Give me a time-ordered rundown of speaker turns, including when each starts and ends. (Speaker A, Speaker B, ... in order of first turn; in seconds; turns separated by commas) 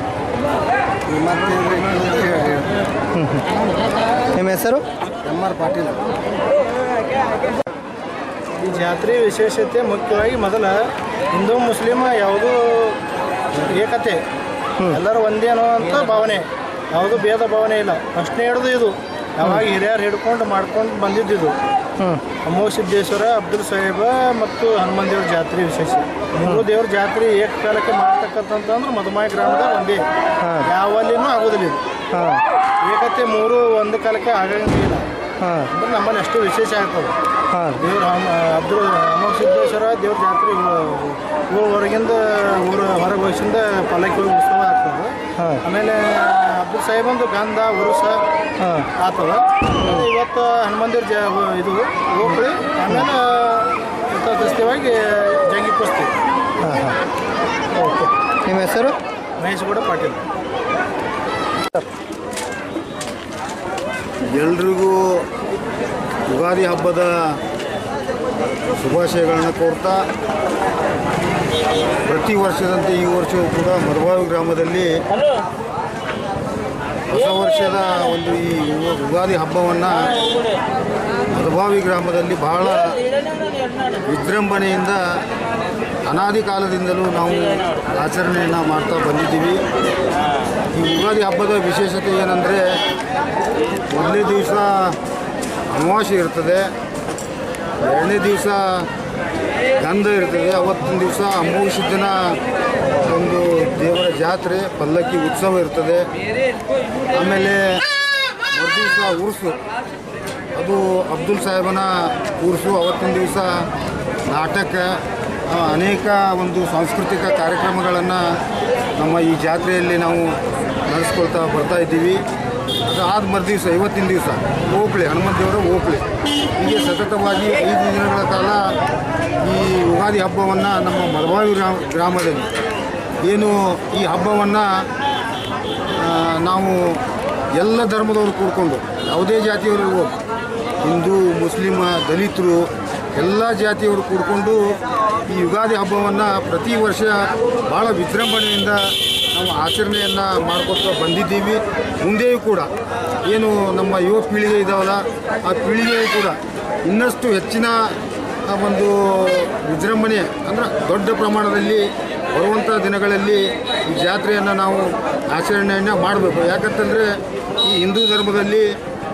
Speaker A: 1.1-2.7, Speaker B: 3.2-3.4, Speaker B: 4.3-4.8, Speaker A: 5.3-6.1, Speaker C: 8.6-10.8, Speaker C: 11.3-13.0, Speaker C: 13.7-14.2, Speaker C: 14.9-21.6, Speaker B: 22.0-22.3, Speaker C: 22.4-30.0, Speaker C: 30.7-31.8, Speaker B: 32.1-32.4, Speaker C: 32.8-35.0, Speaker B: 35.4-35.7, Speaker C: 35.8-37.1, Speaker B: 37.5-37.8, Speaker C: 37.8-45.1, Speaker C: 45.6-48.2, Speaker B: 48.6-48.9, Speaker C: 49.0-56.1, Speaker B: 56.6-57.0, Speaker B: 57.8-59.0, Speaker C: 59.4-60.2, Speaker D: 64.2-65.3, Speaker D: 66.3-67.4, Speaker D: 68.8-70.1, Speaker D: 72.0-74.9, Speaker D: 77.1-80.1, Speaker D: 81.3-83.0, Speaker D: 84.0-85.0, Speaker D: 86.1-89.6, Speaker D: 90.7-92.8, Speaker D: 93.9-95.0, Speaker D: 95.7-96.7, Speaker D: 97.8-98.9, Speaker D: 99.8-102.4, Speaker D: 103.1-106.1, Speaker D: 107.1-107.8, Speaker D: 108.5-109.6, Speaker D: 110.5-113.7, Speaker D: 114.3-115.0, Speaker D: 115.5-118.2, Speaker D: 119.0-120.3, Speaker D: 120.9-122.2, Speaker D: 122.9-126.0, Speaker D: 126.6-128.8, Speaker D: 129.4-132.5, Speaker D: 133.2-134.9, Speaker D: 136.0-137.0, Speaker D: 137.6-140.1, Speaker D: 140.8-152.7, Speaker D: 153.3-157.9, Speaker D: 158.5-167.1, Speaker D: 167.6-168.7